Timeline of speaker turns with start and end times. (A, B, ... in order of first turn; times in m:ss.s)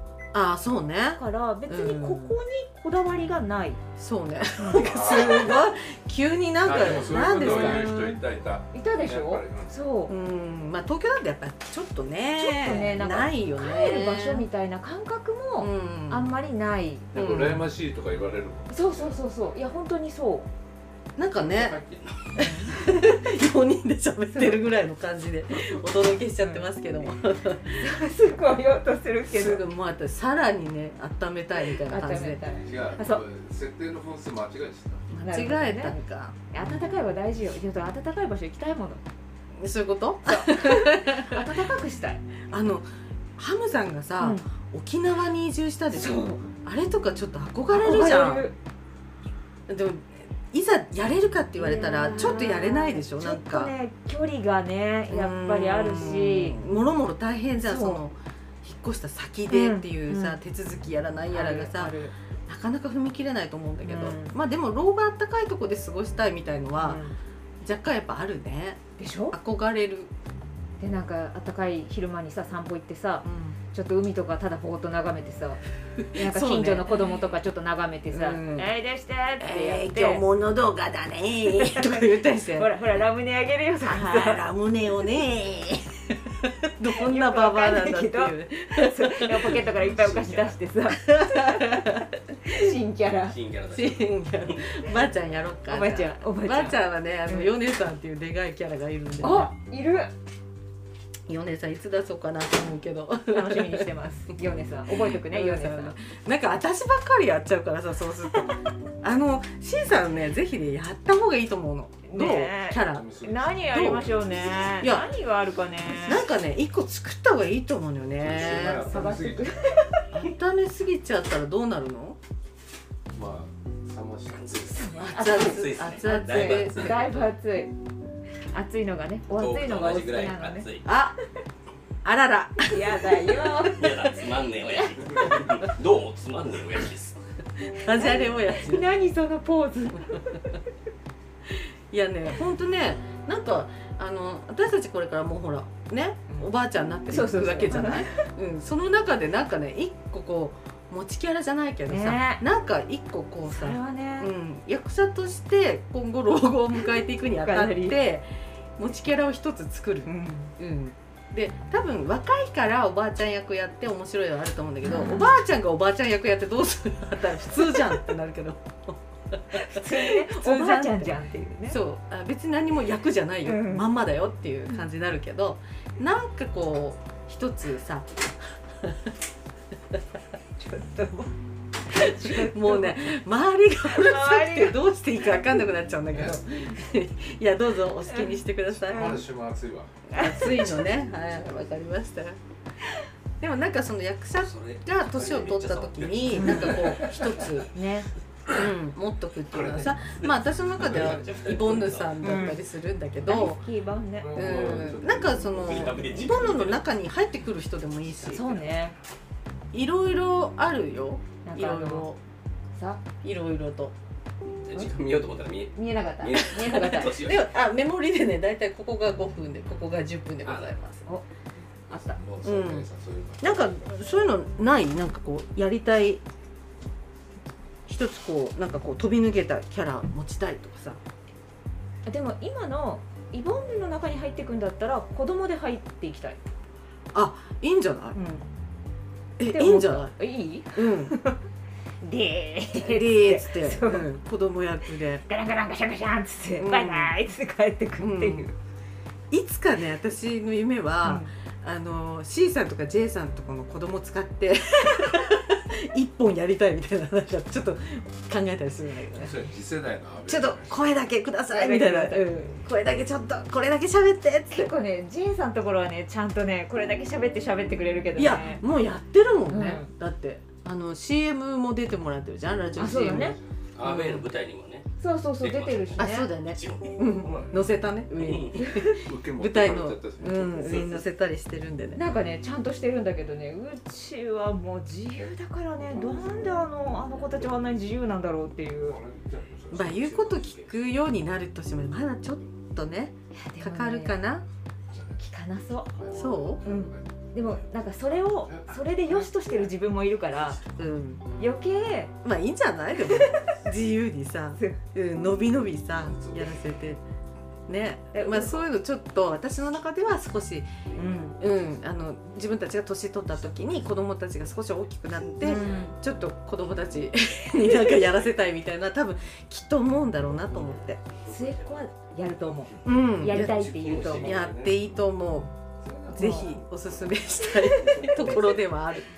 0:00.3-0:02.4 A
0:01.2-0:03.8 B
0:04.0-0:08.2 A
0:04.6-0:04.9 B
0:04.8-0:05.6 C
0:06.6-0:09.8 C
0:07.2-0:07.9 B
0:08.7-0:10.1 B
0:10.1-0:14.5 A
0:12.4-0:17.5 B
0:15.6-0:16.3 A
0:17.1-0:19.2 C
0:17.2-0:17.6 A
0:18.7-0:20.5 B
0:21.2-0:21.8 A
0:21.5-0:21.9 C
0:21.5-0:22.3 D
0:22.4-0:22.9 B
0:22.4-0:27.9 A
0:24.4-0:24.6 B
0:26.4-0:26.7 B
0:27.8-0:29.6 B
0:29.3-0:32.4 A
0:31.8-0:33.2 B
0:32.6-0:35.1 C
0:35.1-0:36.9 A
0:35.2-0:36.0 B
0:36.5-0:39.0 B
0:39.6-0:41.5 A
0:40.2-0:42.2 B
0:42.5-0:42.9 A
0:43.4-0:48.5 A
0:44.2-0:44.5 B
0:45.9-0:46.4 B
0:47.7-0:48.6 B
0:49.7-0:53.7 A
0:51.6-0:56.6 B
0:55.1-1:07.0 A
0:57.6-0:58.0 B
0:59.5-1:00.4 B
1:01.3-1:02.1 B
1:03.8-1:04.3 B
1:06.8-1:07.1 B
1:07.6-1:10.1 A
1:09.0-1:09.4 B
1:10.8-1:15.6 B
1:13.2-1:13.6 A
1:16.0-1:17.2 A
1:16.2-1:20.3 B
1:18.1-1:18.7 A
1:19.4-1:22.7 A
1:21.5-1:24.5 B
1:23.8-1:29.6 A
1:27.0-1:33.4 B
1:29.8-1:30.6 D
1:30.9-1:32.1 A
1:33.3-1:34.9 D
1:33.7-1:39.5 A
1:35.7-1:37.6 B
1:39.2-1:40.1 B
1:41.3-1:43.9 A
1:43.3-1:46.0 B
1:44.9-1:53.1 A
1:52.1-1:56.2 B
1:52.9-1:54.7 C
1:53.7-1:55.1 A
1:56.0-1:58.9 A
1:58.2-1:59.5 C
1:58.7-2:00.2 B
2:00.1-2:02.2 A
2:03.1-2:05.1 C
2:04.3-2:07.3 D
2:04.7-2:07.7 B
2:05.1-2:07.1 A
2:08.5-2:10.7 B
2:09.3-2:10.9 D
2:10.8-2:11.2 A
2:12.0-2:14.0 A
2:12.7-2:14.0 B
2:13.7-2:17.2 D
2:14.7-2:15.0 B
2:17.8-2:18.9 A
2:17.9-2:20.6 B
2:21.9-2:58.1 A
2:27.1-2:28.2 B
2:31.9-2:32.4 B
2:33.5-2:34.3 B
2:37.4-2:38.0 B
2:40.1-2:40.5 B
2:44.8-2:45.4 B
2:49.5-2:51.8 B
2:53.4-2:53.9 B
2:58.8-2:59.1 A
3:00.6-3:01.3 B
3:01.9-3:03.0 B
3:01.9-3:09.2 A
3:03.9-3:04.8 B
3:08.1-3:09.2 B
3:08.8-3:09.9 C
3:10.1-3:12.4 A
3:10.1-3:10.6 B
3:13.4-3:17.7 A
3:14.4-3:17.6 D
3:16.3-3:16.9 B
3:17.7-3:18.1 B
3:18.5-3:23.6 A
3:19.5-3:22.4 D
3:20.8-3:22.0 C
3:22.2-3:22.6 B
3:23.2-3:24.7 B
3:24.1-3:26.4 C
3:24.3-3:28.5 A
3:25.6-3:26.8 D
3:28.2-3:28.7 D
3:28.3-3:29.0 B
3:29.7-3:32.2 A
3:31.4-3:32.1 B
3:32.8-3:33.0 B
3:33.2-3:34.0 A
3:34.5-3:37.5 D
3:35.7-3:37.1 B
3:36.6-3:41.1 A
3:40.4-3:40.7 D
3:41.9-3:42.2 B
3:41.9-3:43.9 C
3:42.4-3:42.9 A
3:43.4-3:46.2 A
3:47.9-3:51.0 A
3:52.0-3:56.4 B
3:57.1-3:58.2 A
3:58.1-3:58.4 B
3:59.4-4:00.2 A
3:59.5-4:01.4 B
4:00.8-4:01.2 A
4:02.0-4:04.2 B
4:02.8-4:05.2 A
4:05.1-4:08.6 B
4:06.6-4:07.2 A
4:08.0-4:08.5 A
4:09.3-4:19.4 A
4:11.0-4:11.3 B
4:19.2-4:20.7 C
4:20.2-4:24.7 A
4:21.5-4:22.3 B
4:24.5-4:28.6 B
4:28.2-4:34.3 A
4:29.5-4:29.9 B
4:32.8-4:33.4 B
4:32.9-4:33.5 C
4:33.8-4:34.9 D
4:35.0-4:36.3 B
4:35.4-4:37.0 D
4:36.0-4:42.0 A
4:37.2-4:37.8 C
4:38.2-4:38.6 D
4:38.6-4:39.0 B
4:38.9-4:41.0 C
4:41.9-4:49.0 B
4:45.9-4:47.8 C
4:48.8-4:50.3 C
4:49.7-4:50.8 D
4:49.7-4:54.4 A
4:53.4-4:54.2 B
4:54.9-4:55.2 C
4:55.2-4:55.9 B
4:55.9-4:57.7 C
4:56.1-4:56.6 A
4:56.6-5:00.6 B
4:58.3-4:59.7 C
5:00.8-5:01.2 A
5:01.4-5:02.1 B
5:02.2-5:07.0 A
5:03.1-5:03.5 B
5:06.0-5:06.6 C
5:07.7-5:10.8 A
5:08.1-5:08.5 B
5:08.4-5:08.6 C
5:11.0-5:11.4 B
5:11.4-5:21.0 A
5:15.2-5:15.8 D
5:15.4-5:15.9 B
5:17.9-5:18.2 D
5:20.3-5:22.0 D
5:21.3-5:24.3 B
5:22.8-5:25.5 A
5:23.4-5:25.0 D
5:25.8-5:26.5 C
5:26.1-5:26.6 B
5:26.1-5:29.0 A
5:27.6-5:28.3 B
5:27.8-5:28.6 D